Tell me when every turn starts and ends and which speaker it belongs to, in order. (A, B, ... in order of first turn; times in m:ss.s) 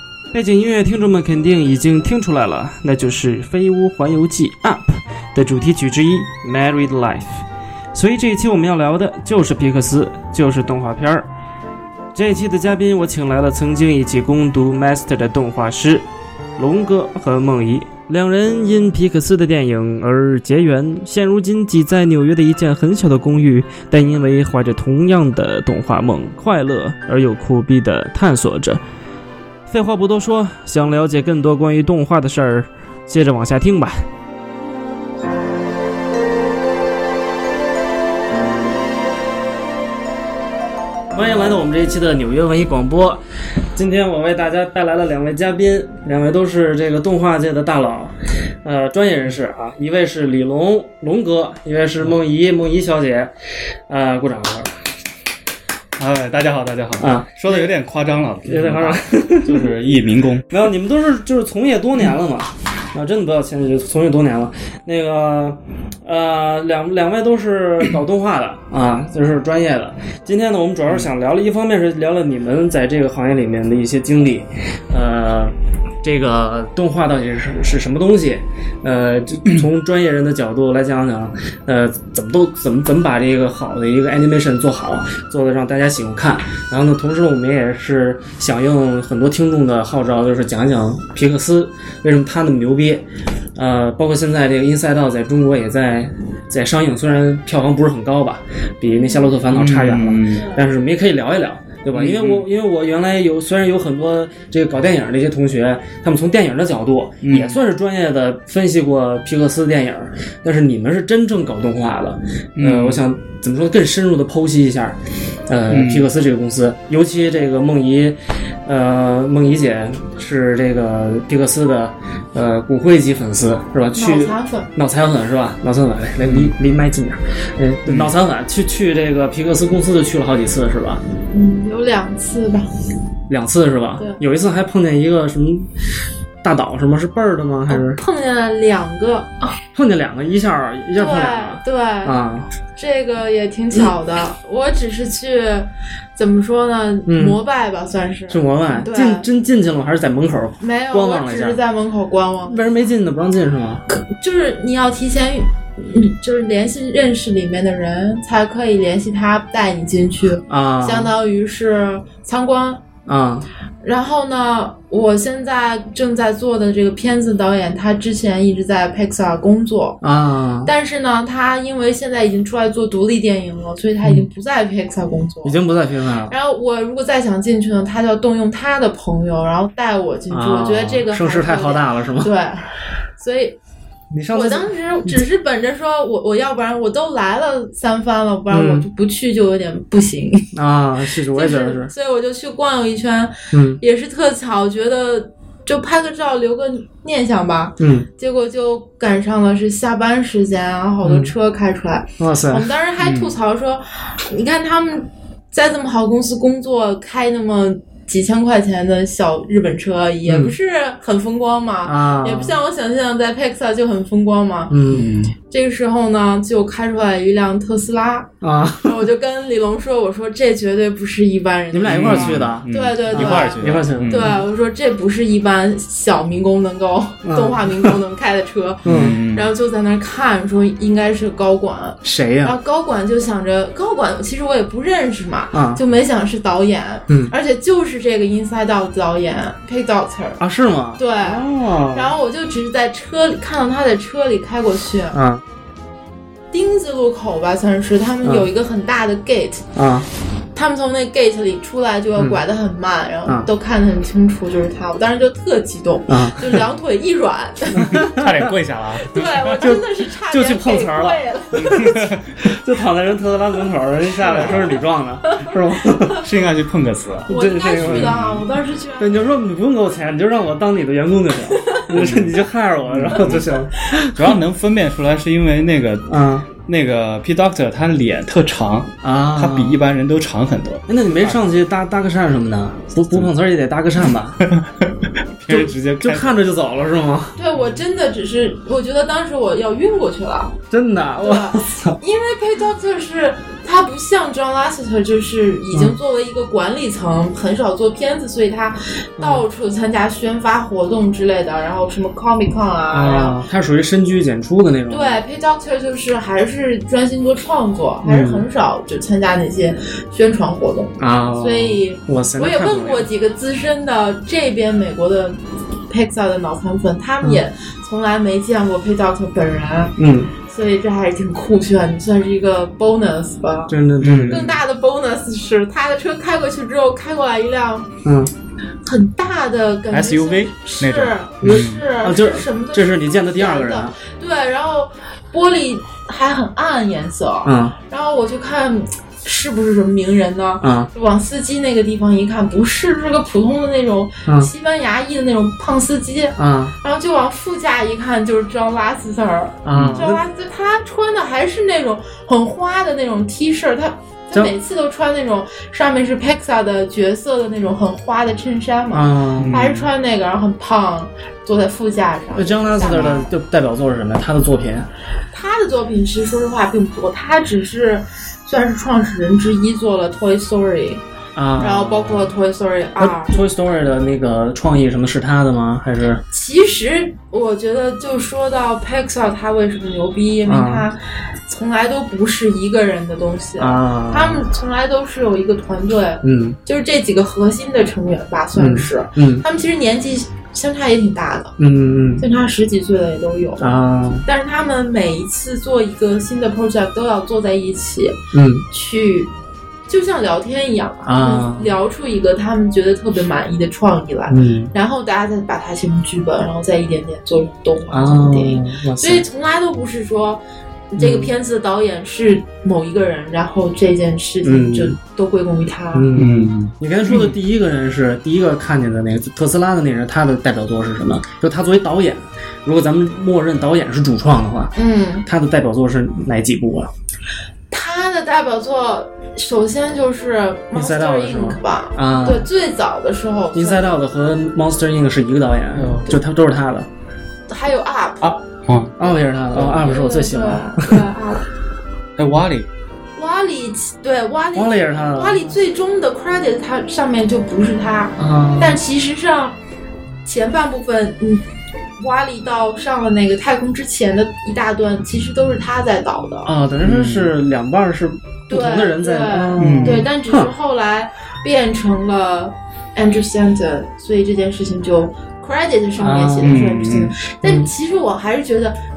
0:00.3-0:11.3 A
0:12.1-0:16.0 A
0:16.6-0:28.8 A
0:29.7-0:34.0 A
0:41.1-0:43.2 A
0:43.7-0:53.3 A
0:53.9-0:54.7 A
0:56.0-1:00.7 B
0:57.0-0:57.7 A
0:58.5-0:59.7 A
1:00.5-1:33.0 A
1:33.6-2:11.0 A
1:39.1-1:39.4 C
1:39.5-1:40.5 B
1:41.9-1:42.5 B
1:47.2-1:47.6 B
1:52.6-1:53.1 B
1:55.7-1:56.1 B
2:03.9-2:04.7 C
2:06.2-2:06.5 B
2:07.8-2:08.1 B
2:11.3-2:12.7 C
2:13.3-2:15.7 A
2:16.4-2:18.0 A
2:17.7-2:19.6 C
2:19.7-2:22.5 A
2:20.9-2:22.2 C
2:22.8-2:29.2 C
2:27.1-2:27.4 A
2:28.3-2:31.6 A
2:30.6-2:32.6 C
2:32.4-2:33.8 A
2:33.9-2:42.8 C
2:40.5-2:41.1 A
2:43.0-2:43.5 A
2:43.8-2:50.0 C
2:50.0-2:50.7 A
2:50.6-2:55.6 C
2:55.4-2:56.3 A
2:56.3-3:03.6 C
3:00.3-3:02.3 A
3:04.1-3:05.2 A
3:04.3-3:10.5 C
3:08.5-3:08.8 A
3:10.5-3:11.9 A
3:11.3-3:34.8 C
3:13.5-3:13.8 A
3:17.8-3:18.1 A
3:21.0-3:21.3 A
3:22.2-3:22.7 A
3:23.0-3:23.4 B
3:30.2-3:30.5 A
3:31.8-3:32.6 A
3:34.7-3:35.1 A
3:34.9-3:35.3 B
3:35.5-4:00.4 C
3:38.4-3:39.0 A
3:41.7-3:44.4 A
3:41.8-3:44.4 B
3:47.2-3:48.0 A
3:48.8-3:49.2 A
3:48.8-3:49.5 B
3:52.0-3:52.5 A
3:55.5-3:55.8 A
4:00.4-4:02.1 A
4:01.0-4:05.2 C
4:05.1-4:05.4 A
4:06.5-4:09.7 C
4:08.2-4:08.5 A
4:09.7-4:10.1 A
4:10.5-4:18.1 C
4:12.2-4:12.4 A
4:16.1-4:16.6 A
4:17.7-4:18.5 A
4:17.9-4:19.6 B
4:19.0-4:22.1 C
4:19.6-4:26.3 A
4:21.5-4:22.4 B
4:24.3-4:24.8 B
4:25.3-4:26.2 C
4:26.2-4:28.4 B
4:27.3-4:29.2 C
4:27.3-4:28.2 A
4:29.0-4:34.2 A
4:31.5-4:31.8 C
4:31.9-4:41.4 B
4:36.1-4:36.5 A
4:39.0-4:39.8 A
4:40.9-4:44.4 A
4:44.4-4:46.4 B
4:45.5-4:47.4 A
4:47.4-4:50.6 C
4:50.7-4:52.0 A
4:51.2-5:03.4 C
4:59.2-4:59.4 A
5:02.9-5:05.2 A
5:04.9-5:23.8 C
5:08.0-5:08.4 A
5:11.0-5:13.1 A
5:20.0-5:20.3 A
5:23.7-5:24.5 A
5:24.0-5:24.5 B
5:24.3-5:27.9 C
5:28.0-5:28.3 A
5:28.8-6:03.3 C
5:29.9-5:31.8 B
5:31.4-5:33.9 A
5:37.4-5:37.8 A
5:40.6-5:40.9 A
5:46.4-5:46.7 A
5:49.6-5:50.2 A
5:49.7-5:50.0 B
5:58.9-5:59.8 A
5:59.4-5:59.9 B
6:02.3-6:04.9 A
6:05.3-6:11.0 C
6:11.3-6:12.3 A
6:11.6-6:13.4 C
6:13.0-6:16.2 A
6:16.3-6:31.5 C
6:20.5-6:20.9 A
6:23.6-6:24.4 A
6:26.2-6:26.6 A
6:28.6-6:29.4 A
6:31.6-6:32.2 A
6:32.2-6:39.3 C
6:33.6-6:34.2 A
6:38.3-6:38.6 A
6:39.9-6:50.4 C
6:41.0-6:41.7 A
6:44.3-6:44.7 A
6:47.9-6:49.2 A
6:50.9-6:56.1 C
6:51.0-6:51.3 A
6:54.4-6:55.0 A
6:55.9-7:04.7 A
6:56.1-6:57.4 B
7:04.8-7:05.2 C
7:05.2-7:06.9 A
7:07.7-7:14.0 C
7:10.7-7:12.4 A
7:13.5-7:16.9 A
7:15.7-7:16.2 B
7:17.5-7:18.4 C
7:18.2-7:19.9 B
7:19.0-7:21.0 A
7:19.8-7:21.4 C
7:22.2-7:22.7 B
7:23.2-7:29.5 C
7:24.5-7:25.4 A
7:28.2-7:28.8 A
7:30.2-7:31.4 C
7:32.0-7:36.5 C
7:36.4-7:40.5 A
7:36.8-7:37.3 B
7:38.5-7:48.8 C
7:39.6-7:40.1 B
7:46.0-7:46.6 A
7:46.4-7:47.1 B
7:47.4-7:47.7 A